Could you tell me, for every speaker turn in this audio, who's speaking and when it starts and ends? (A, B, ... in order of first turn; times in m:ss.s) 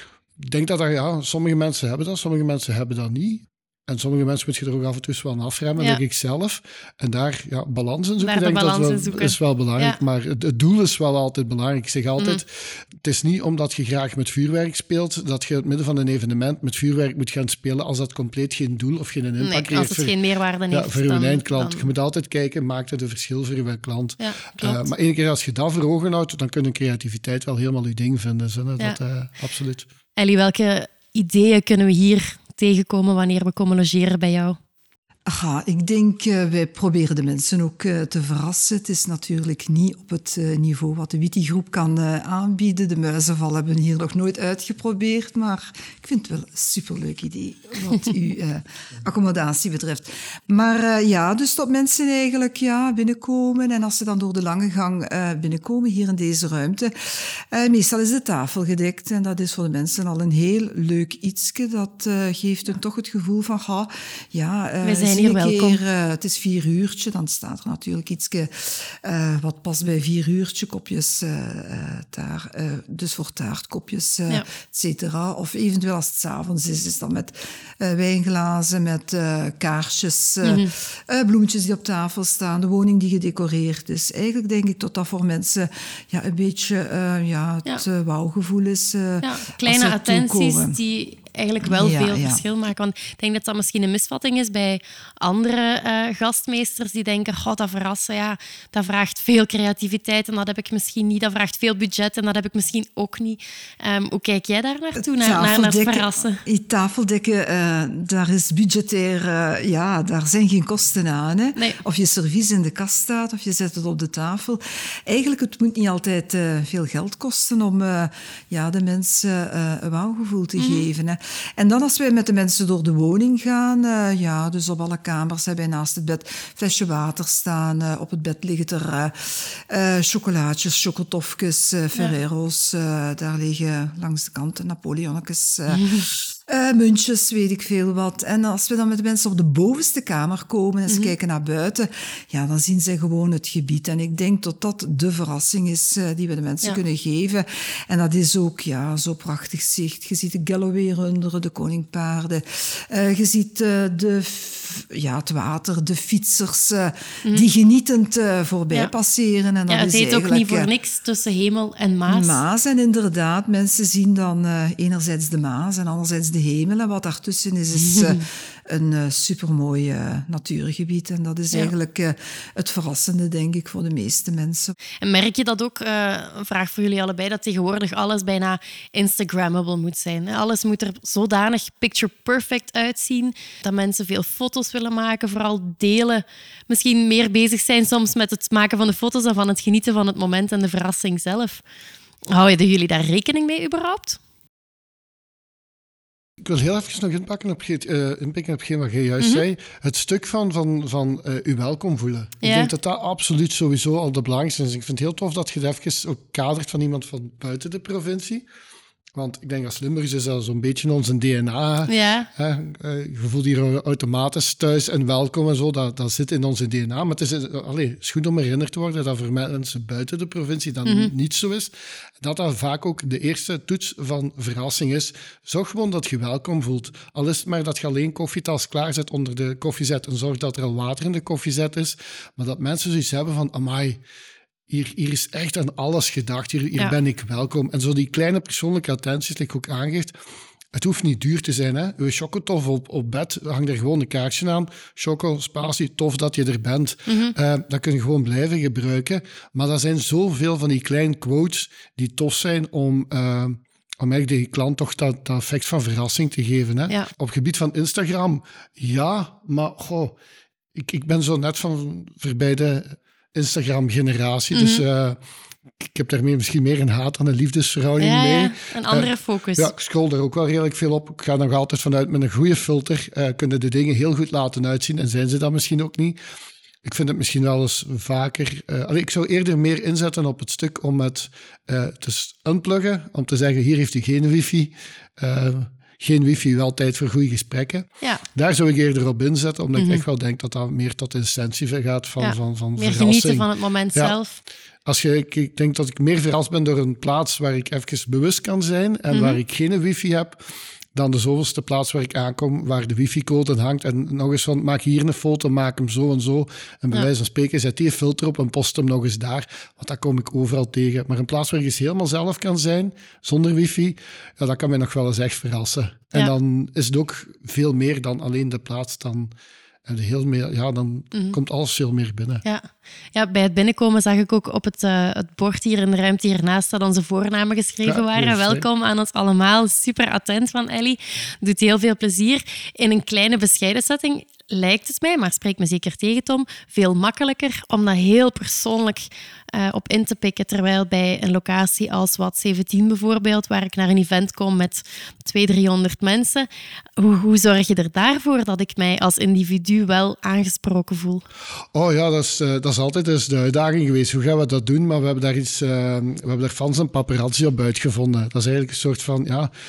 0:00.4-0:20.1 A
0:08.2-0:10.0 B
0:19.4-0:21.9 B
0:20.7-0:29.9 A
0:24.2-0:24.9 B
0:30.2-0:34.6 B
0:35.2-1:30.8 C
1:04.8-1:05.8 B
1:20.4-1:20.7 B
1:29.2-1:46.4 B
1:31.6-1:32.4 C
1:45.0-2:40.7 C
2:00.6-2:00.9 B
2:15.7-2:16.1 B
2:20.9-2:21.1 B
2:39.7-2:42.4 B
2:42.1-2:54.7 C
2:47.8-2:48.2 B
2:55.0-3:11.6 B
3:12.3-3:14.2 B
3:16.4-3:28.4 A
3:22.4-3:22.7 B
3:29.1-3:54.0 A
3:31.9-3:32.3 B
3:40.8-3:41.1 B
3:54.7-4:00.1 A
4:00.7-4:20.2 A
4:07.1-4:07.4 B
4:20.7-4:25.2 A
4:24.5-4:24.8 B
4:25.8-4:36.2 A
4:28.0-4:29.7 B
4:36.8-4:54.2 A
4:49.8-4:50.0 B
4:52.2-4:54.4 B
4:54.8-5:00.4 A
4:59.1-4:59.4 B
5:00.9-5:19.3 A
5:19.8-5:22.4 A
5:22.4-5:51.2 B
5:27.8-5:28.6 A
5:51.7-5:59.5 A